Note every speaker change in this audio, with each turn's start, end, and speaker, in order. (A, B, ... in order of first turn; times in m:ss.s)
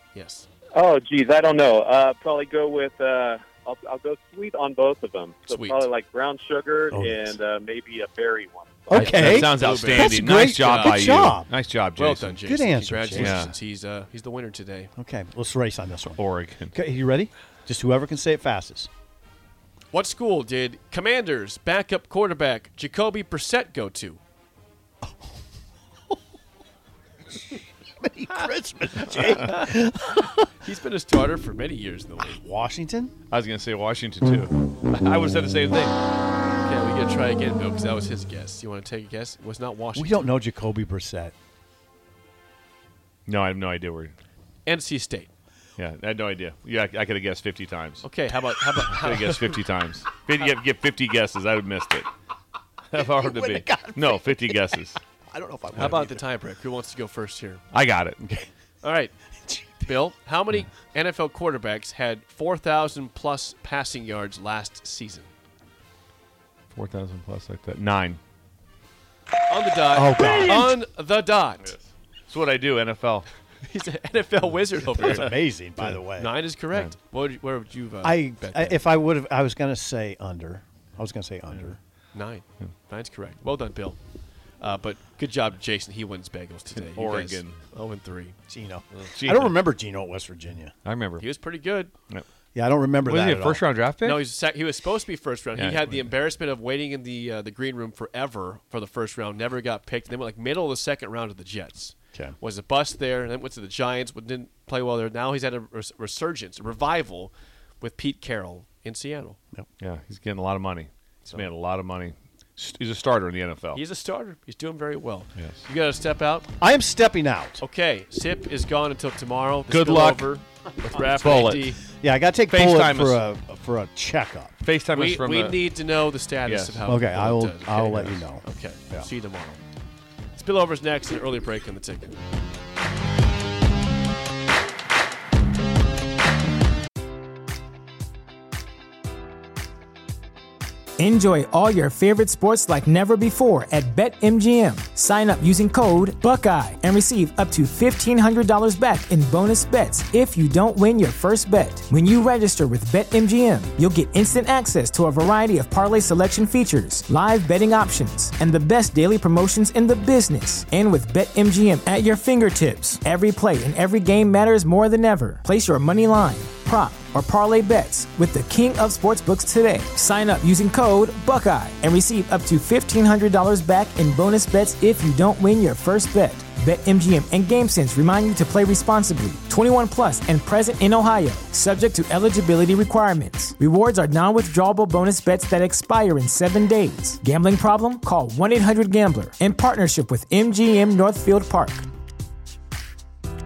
0:00.1-0:00.5 A
0:00.8-0:08.8 B
0:05.4-0:05.9 A
0:06.9-0:07.4 C
0:08.9-0:11.5 C
0:08.9-0:12.4 D
0:09.0-0:11.1 A
0:12.0-0:14.9 A
0:12.4-0:13.5 C
0:13.1-0:13.5 D
0:15.0-0:16.2 C
0:16.2-0:16.7 D
0:16.7-0:18.9 C
0:19.9-0:24.2 A
0:27.3-0:30.5 C
0:30.6-0:32.4 A
0:32.2-0:33.1 C
0:33.3-0:36.0 D
0:36.6-0:40.3 A
0:39.9-0:41.3 C
0:43.2-0:44.1 D
0:44.6-0:45.3 A
0:45.8-0:48.0 D
0:48.0-0:49.6 A
0:48.9-0:52.1 D
0:52.9-0:55.0 D
0:53.0-0:54.8 C
0:55.3-0:56.2 C
0:55.8-0:57.6 A
0:57.7-0:58.2 D
0:58.2-0:58.5 C
0:58.8-0:59.1 A
0:59.8-1:05.3 A
1:06.7-1:08.2 D
1:09.5-1:11.7 A
1:09.9-1:10.8 C
1:11.6-1:13.3 D
1:13.6-1:18.8 A
1:15.0-1:16.3 C
1:18.0-1:21.8 C
1:22.1-1:24.0 A
1:24.6-1:28.4 A
1:26.7-1:27.6 D
1:28.5-1:30.7 C
1:29.1-1:29.5 D
1:30.8-1:31.3 D
1:31.2-1:31.9 A
1:32.5-1:33.7 C
1:33.0-1:34.3 D
1:34.0-1:49.4 A
1:35.5-1:36.1 D
1:49.8-1:53.8 D
1:53.7-1:56.5 A
1:55.4-1:55.6 D
1:56.6-1:57.6 C
1:57.6-2:01.8 A
1:59.7-2:00.4 D
2:01.2-2:01.7 D
2:02.0-2:04.5 C
2:02.5-2:03.2 D
2:04.6-2:05.6 D
2:04.9-2:09.6 A
2:06.4-2:06.9 D
2:06.8-2:09.1 C
2:10.4-2:12.1 A
2:21.0-3:11.8 E